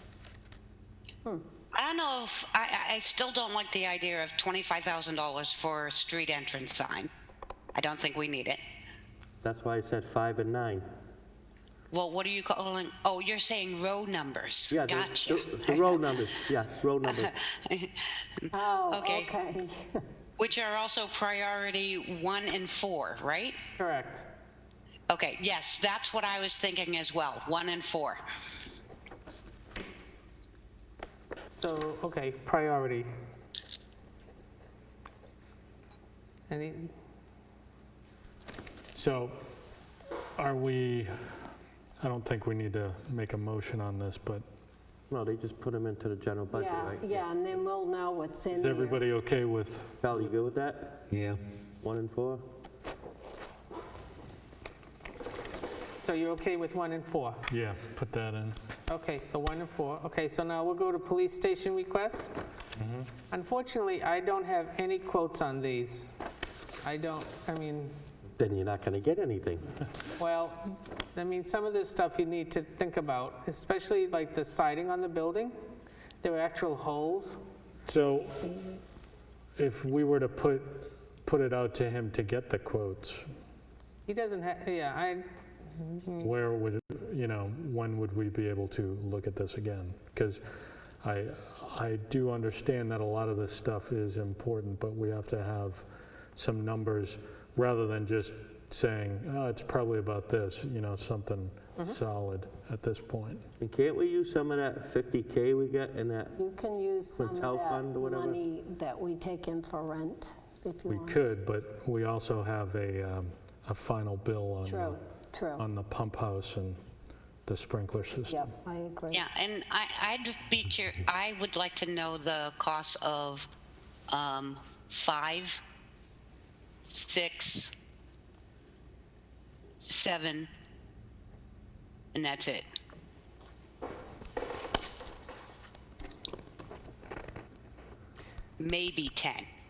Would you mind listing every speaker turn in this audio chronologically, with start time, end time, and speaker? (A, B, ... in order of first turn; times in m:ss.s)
0:01.7-0:07.1 A
0:07.7-0:08.6 A
0:09.4-0:10.8 B
0:11.9-0:16.3 A
0:14.7-0:17.3 B
0:17.0-0:19.3 A
0:18.5-0:19.8 C
0:20.4-0:23.6 A
0:23.8-0:24.3 D
0:25.1-0:28.2 A
0:31.5-0:33.1 D
0:36.5-0:36.9 D
0:38.9-0:39.4 E
0:40.4-0:41.1 E
0:42.0-0:44.4 E
0:45.1-0:47.3 B
0:46.5-0:49.0 C
0:48.5-0:49.9 E
0:50.0-0:51.1 B
0:51.8-0:52.4 B
0:56.0-0:57.4 D
0:57.5-0:58.6 E
0:58.9-1:02.3 D
1:02.8-1:03.1 E
1:03.3-1:06.1 D
1:06.8-1:08.0 D
1:08.4-1:09.7 B
1:10.2-1:15.6 D
1:16.2-1:17.4 D
1:17.8-1:18.8 E
1:19.6-1:23.2 E
1:24.1-1:26.3 D
1:26.2-1:30.4 E
1:31.0-1:43.5 E
1:43.6-1:46.4 B
1:46.4-1:51.2 C
1:47.2-1:48.4 B
1:50.9-1:55.0 E
1:54.6-1:55.6 C
1:55.6-1:56.8 E
1:57.4-1:58.5 E
1:58.3-1:59.3 C
1:59.1-2:03.5 A
2:04.1-2:05.6 A
2:06.9-2:07.7 A
2:09.8-2:10.5 A
2:12.1-2:12.6 A
2:18.6-2:19.5 A